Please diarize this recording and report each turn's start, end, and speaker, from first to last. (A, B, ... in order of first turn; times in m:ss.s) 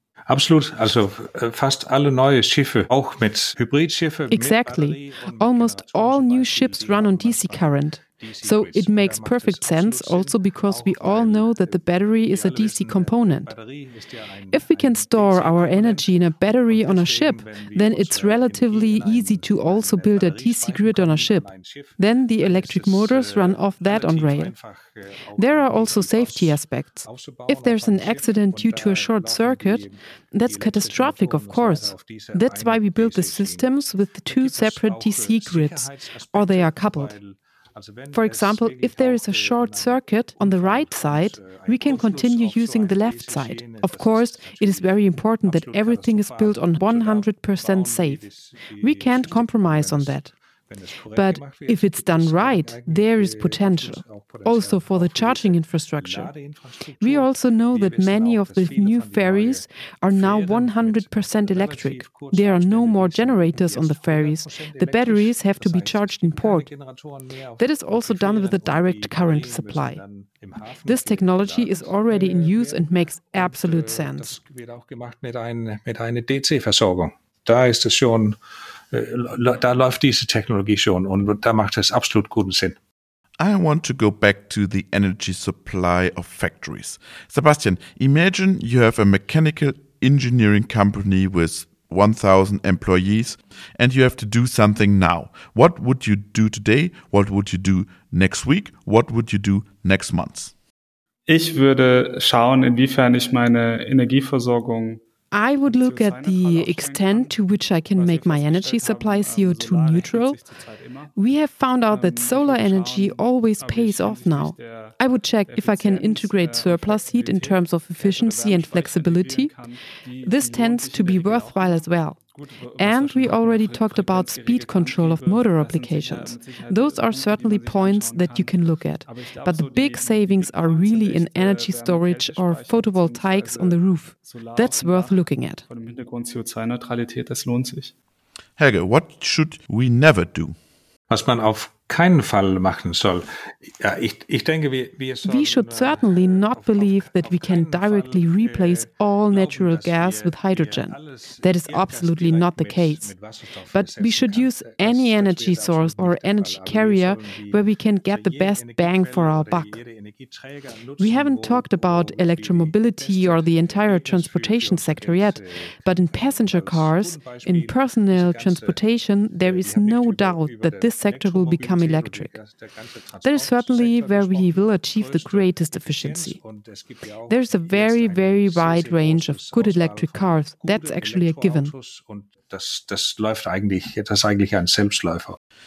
0:00.3-0:29.9 A
0:04.3-0:13.5 B
0:14.5-0:24.5 B
0:25.4-0:37.2 B
0:30.5-0:33.7 A
0:34.3-0:50.2 A
0:38.1-0:48.2 B
0:48.8-0:50.3 B
0:50.7-1:18.4 A
0:51.1-0:56.3 B
0:57.0-1:06.7 B
1:07.6-1:10.0 B
1:10.8-1:14.4 B
1:18.9-1:22.8 A
1:23.4-1:40.5 C
1:41.3-1:45.0 D
1:45.3-1:50.4 B
1:45.7-1:47.3 D
1:48.0-1:51.1 D
1:51.2-1:59.5 B
1:51.9-2:17.9 D
2:00.2-2:02.2 B
2:02.8-2:15.6 B
2:18.6-2:20.6 C
2:21.1-2:23.2 A
2:23.8-2:48.8 A
2:25.2-2:33.1 B
2:33.7-2:39.8 B
2:41.0-2:52.3 B
2:49.4-3:05.4 A
2:53.2-2:56.4 B
2:57.3-3:01.7 B